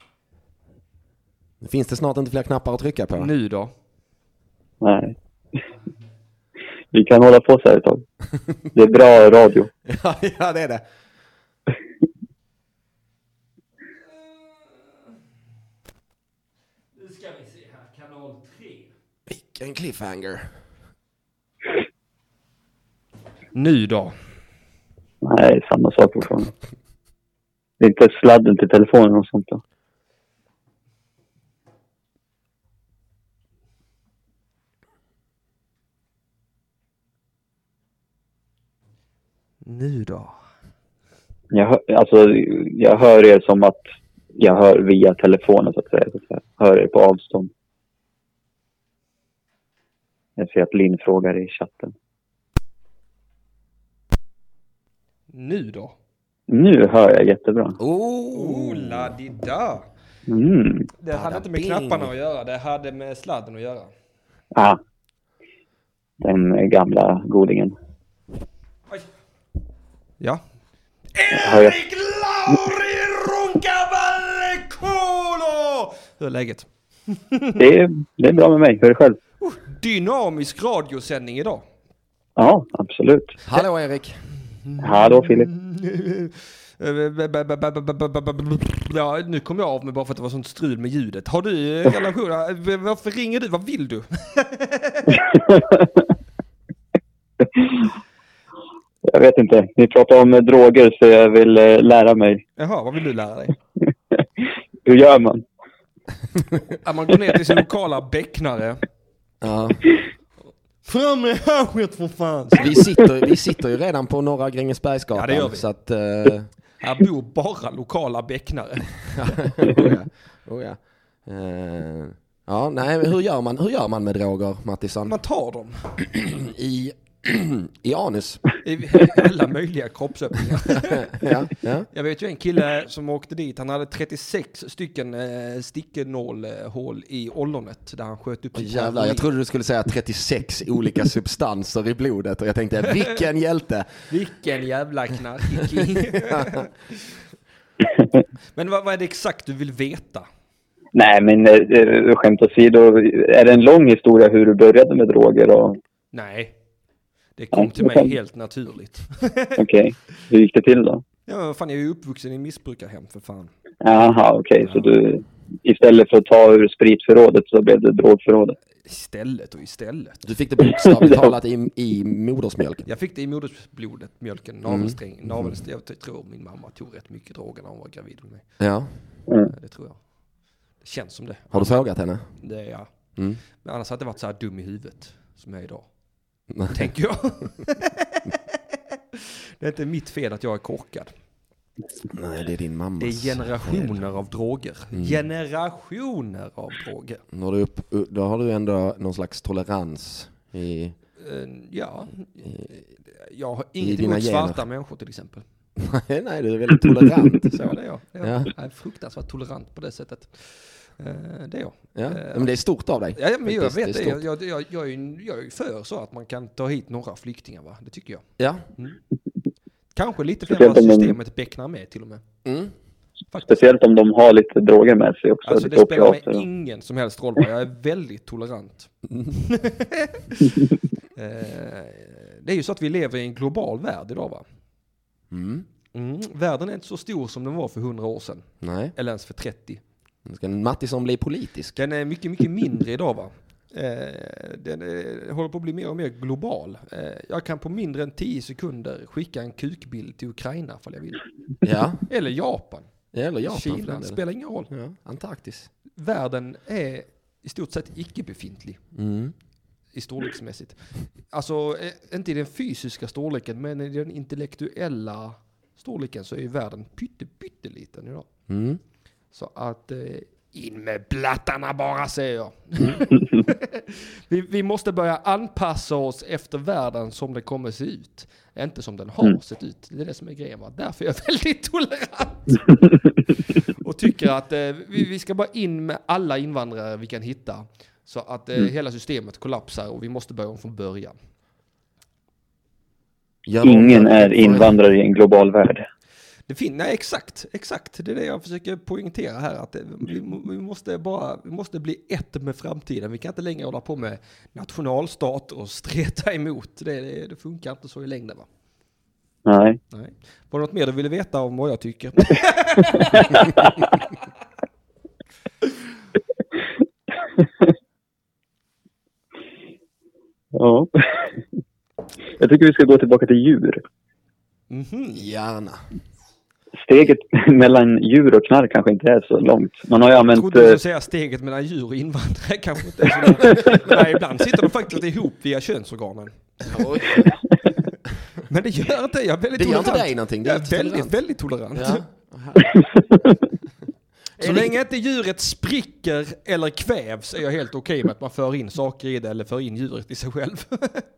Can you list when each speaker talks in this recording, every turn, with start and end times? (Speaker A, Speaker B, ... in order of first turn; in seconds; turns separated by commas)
Speaker A: 1.6-3.3, Speaker B: 3.2-3.7, Speaker C: 4.8-5.1, Speaker C: 6.9-8.0, Speaker C: 8.7-9.7, Speaker A: 9.8-10.8, Speaker B: 14.0-15.2, Speaker B: 16.9-18.9, Speaker A: 19.3-20.5, Speaker B: 23.5-24.1, Speaker C: 25.2-26.5, Speaker C: 27.8-29.6, Speaker B: 39.6-40.4, Speaker C: 41.5-43.8, Speaker C: 44.4-47.5, Speaker C: 50.4-51.9, Speaker B: 55.3-56.0, Speaker C: 56.5-57.8, Speaker A: 57.8-59.1, Speaker B: 58.3-59.8, Speaker C: 60.3-60.9, Speaker B: 61.0-63.9, Speaker A: 61.1-62.1, Speaker C: 66.2-67.7, Speaker B: 71.1-77.6, Speaker C: 71.3-71.8, Speaker C: 77.6-79.2, Speaker B: 79.4-81.6, Speaker C: 82.4-83.4, Speaker A: 83.4-84.2, Speaker B: 84.7-95.2, Speaker C: 84.8-85.5, Speaker C: 95.2-95.9, Speaker C: 97.4-97.9, Speaker C: 99.0-102.4, Speaker B: 102.6-103.5, Speaker C: 104.8-105.4, Speaker B: 106.8-108.8, Speaker A: 109.4-109.8, Speaker B: 110.8-112.8, Speaker A: 112.6-116.5, Speaker B: 115.1-115.7, Speaker B: 116.8-119.5, Speaker A: 119.1-125.2, Speaker B: 125.0-125.8, Speaker A: 126.0-128.4, Speaker B: 128.6-131.3, Speaker A: 130.7-131.9, Speaker B: 131.9-139.3, Speaker A: 138.5-144.0, Speaker B: 144.1-147.1, Speaker A: 146.2-146.5, Speaker B: 148.5-150.3, Speaker C: 150.9-155.8, Speaker B: 156.1-156.6, Speaker B: 157.3-159.6, Speaker C: 157.5-158.1, Speaker C: 159.6-161.0, Speaker B: 161.3-163.5, Speaker C: 163.8-168.6, Speaker B: 164.6-164.9, Speaker B: 168.8-170.2, Speaker A: 170.2-172.8, Speaker C: 170.8-171.3, Speaker B: 172.8-178.4, Speaker A: 174.6-175.6, Speaker A: 178.6-178.9, Speaker B: 179.5-180.0, Speaker B: 180.8-182.9, Speaker A: 181.5-182.3, Speaker A: 183.2-183.4, Speaker B: 183.6-185.9, Speaker A: 186.5-186.9, Speaker B: 186.7-188.5, Speaker B: 189.1-191.1, Speaker A: 192.1-194.0, Speaker B: 193.0-197.2, Speaker A: 194.9-195.2, Speaker A: 197.3-200.9, Speaker B: 201.2-205.4, Speaker A: 203.8-204.6, Speaker A: 205.8-207.6, Speaker B: 207.5-212.5, Speaker A: 208.2-208.5, Speaker A: 211.9-214.2, Speaker B: 213.1-218.2, Speaker A: 218.4-218.6, Speaker B: 219.9-222.2, Speaker C: 220.5-221.1, Speaker A: 222.4-222.7, Speaker B: 223.3-223.6, Speaker C: 223.4-226.4, Speaker B: 225.4-230.3, Speaker B: 231.2-234.4, Speaker A: 235.3-235.7, Speaker B: 235.9-239.8, Speaker A: 238.6-238.9, Speaker A: 240.2-241.8, Speaker B: 241.8-251.2, Speaker A: 251.6-252.0, Speaker B: 252.1-252.9, Speaker A: 253.1-255.7, Speaker B: 253.4-254.7, Speaker B: 255.9-258.8, Speaker A: 258.9-259.3, Speaker B: 259.9-268.3, Speaker A: 268.5-268.8, Speaker B: 269.3-282.8, Speaker B: 283.8-291.1, Speaker A: 293.4-294.7, Speaker C: 293.6-295.8, Speaker B: 296.5-308.5, Speaker C: 309.4-309.8, Speaker B: 309.9-313.8, Speaker C: 320.5-321.4, Speaker C: 322.4-323.8, Speaker B: 324.7-325.2, Speaker A: 325.1-325.8, Speaker C: 326.8-330.8, Speaker B: 330.2-336.6, Speaker A: 336.6-337.4, Speaker B: 338.5-342.0, Speaker A: 339.5-341.2, Speaker A: 341.7-342.8, Speaker A: 344.4-344.7, Speaker B: 344.4-351.1